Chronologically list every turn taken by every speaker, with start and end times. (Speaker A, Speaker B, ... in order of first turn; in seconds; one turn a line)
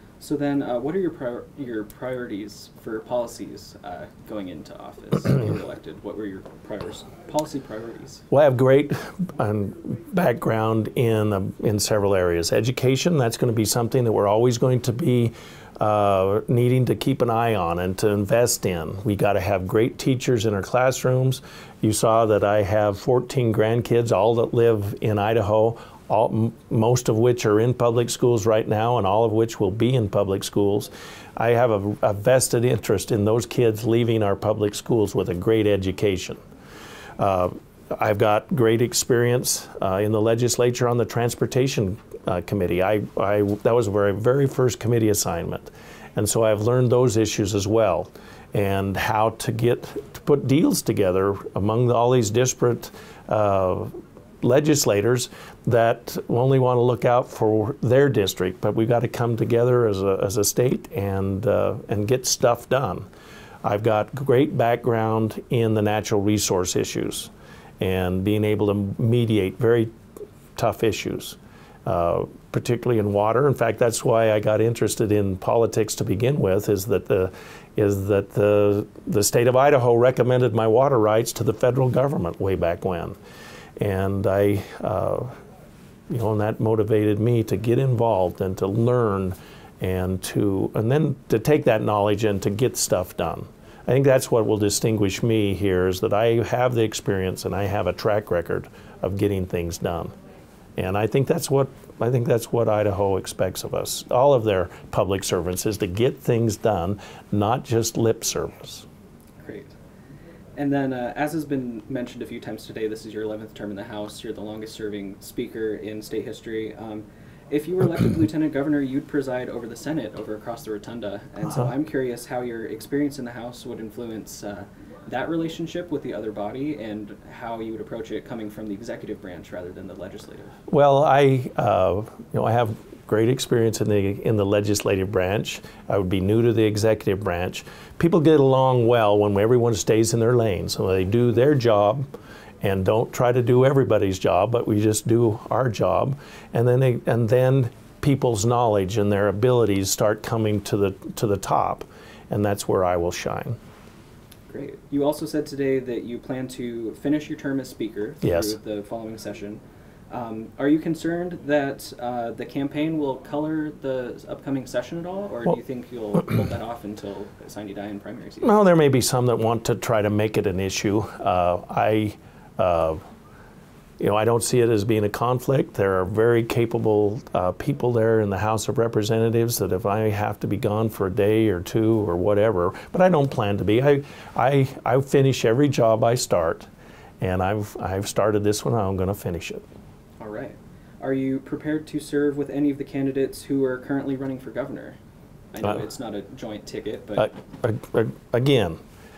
Speaker A: 0.2-8.2
Speaker B: 8.3-36.4
Speaker B: 37.2-63.1
Speaker B: 63.6-69.9
Speaker B: 70.6-83.2
Speaker B: 83.8-85.3
Speaker B: 86.1-100.1
Speaker B: 100.8-108.9
Speaker A: 109.4-109.8
Speaker A: 110.6-130.6
Speaker B: 121.4-121.7
Speaker B: 130.7-142.1
Speaker B: 142.6-153.6
Speaker A: 154.5-168.5
Speaker B: 158.2-158.6
Speaker B: 168.4-173.0
Speaker B: 174.0-186.7
Speaker B: 187.2-189.6
Speaker A: 190.2-195.0
Speaker A: 195.5-197.3
Speaker B: 197.2-198.8